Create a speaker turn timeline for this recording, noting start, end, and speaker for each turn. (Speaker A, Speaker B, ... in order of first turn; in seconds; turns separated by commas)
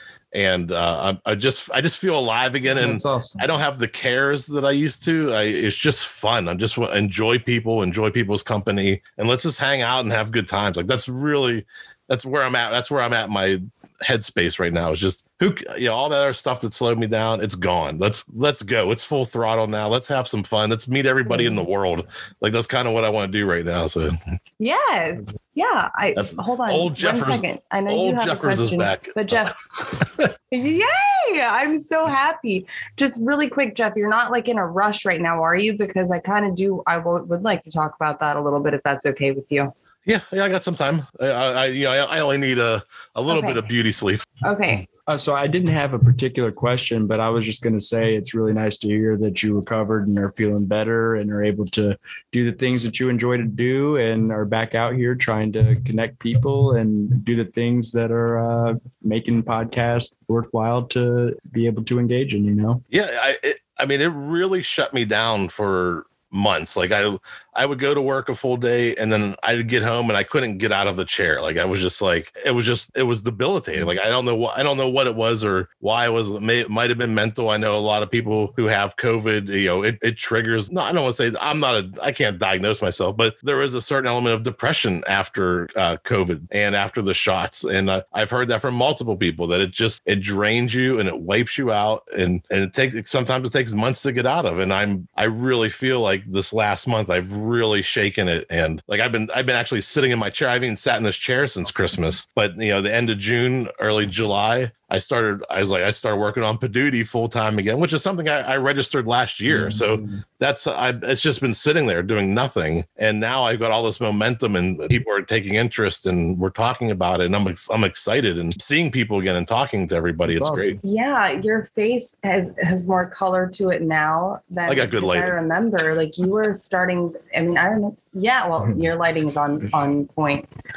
Speaker A: 0.3-24.2, Speaker B: 2.6-3.5, Speaker C: 21.2-21.6, Speaker C: 24.6-29.5, Speaker A: 26.1-30.3, Speaker C: 30.5-39.7, Speaker A: 40.0-44.2, Speaker C: 43.3-43.6, Speaker C: 44.4-44.9, Speaker B: 45.0-62.8, Speaker A: 62.9-120.8, Speaker B: 101.7-102.1, Speaker B: 109.5-110.2, Speaker B: 120.2-120.8, Speaker C: 120.8-130.5, Speaker A: 124.7-125.4